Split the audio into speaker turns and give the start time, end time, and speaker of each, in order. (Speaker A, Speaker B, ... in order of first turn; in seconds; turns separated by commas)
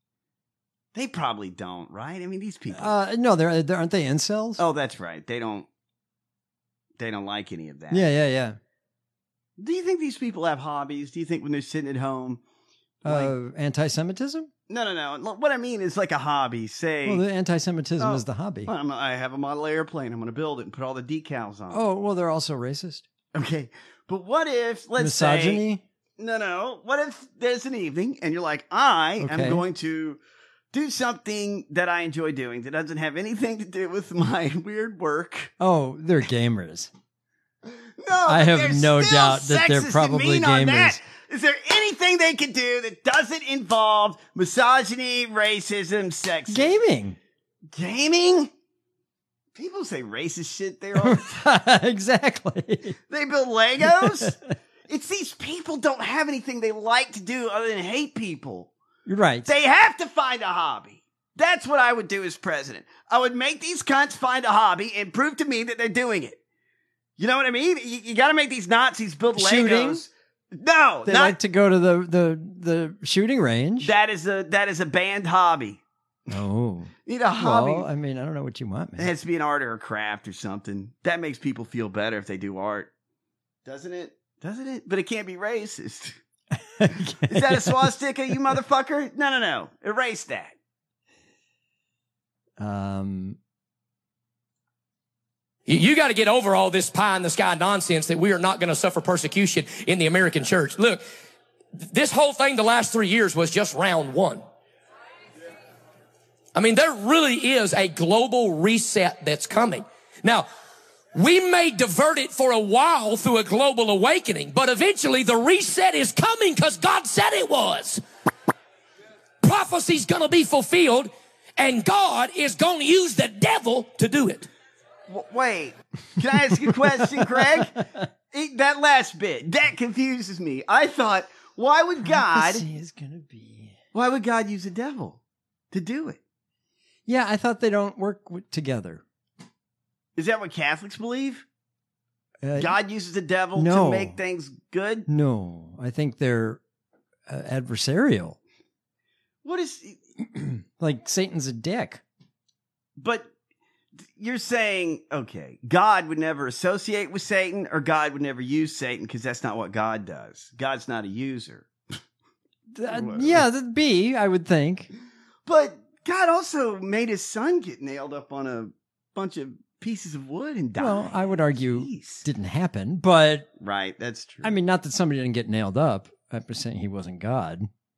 Speaker A: 0.9-3.0, Speaker B: 2.7-4.6, Speaker A: 4.6-5.7, Speaker A: 7.0-8.1, Speaker B: 7.9-8.6, Speaker A: 9.6-12.4, Speaker A: 13.0-13.3, Speaker B: 13.1-14.5, Speaker A: 14.7-17.2, Speaker B: 17.1-18.7, Speaker A: 18.0-21.8, Speaker B: 21.7-23.0, Speaker A: 23.3-25.6, Speaker B: 25.0-25.8, Speaker A: 26.2-30.2, Speaker B: 29.2-29.6, Speaker A: 30.7-35.5, Speaker B: 35.6-36.9, Speaker A: 38.0-46.8, Speaker B: 38.3-41.0, Speaker B: 46.5-47.2, Speaker A: 47.7-48.5, Speaker A: 49.5-51.5, Speaker B: 51.0-53.0, Speaker A: 53.1-54.3, Speaker B: 53.8-54.4, Speaker A: 54.9-58.7, Speaker B: 59.1-59.5, Speaker A: 59.5-66.4, Speaker A: 67.2-71.4, Speaker B: 69.4-70.0, Speaker B: 71.1-73.9, Speaker A: 73.8-75.8, Speaker B: 76.3-79.1, Speaker A: 77.1-77.9, Speaker A: 79.0-82.9, Speaker A: 83.7-86.2, Speaker B: 86.8-87.9, Speaker A: 87.3-90.5, Speaker B: 92.6-93.4, Speaker C: 95.7-101.0, Speaker C: 101.9-104.4, Speaker C: 106.5-110.5, Speaker C: 111.2-118.0, Speaker C: 119.4-124.5, Speaker A: 125.1-127.8, Speaker B: 127.2-128.0, Speaker A: 128.3-132.6, Speaker B: 132.0-133.8, Speaker A: 133.9-135.2, Speaker A: 135.7-136.2, Speaker B: 137.1-139.0, Speaker A: 140.2-141.4, Speaker B: 142.4-142.8, Speaker A: 142.6-145.1, Speaker B: 143.6-144.2, Speaker B: 145.1-146.6, Speaker B: 147.3-148.4, Speaker A: 149.4-150.0, Speaker B: 150.3-152.0, Speaker A: 153.0-153.3, Speaker A: 154.2-161.7, Speaker B: 162.7-164.9, Speaker A: 162.9-163.5, Speaker A: 165.5-172.2, Speaker B: 170.8-173.5, Speaker A: 173.6-174.5, Speaker B: 174.4-177.7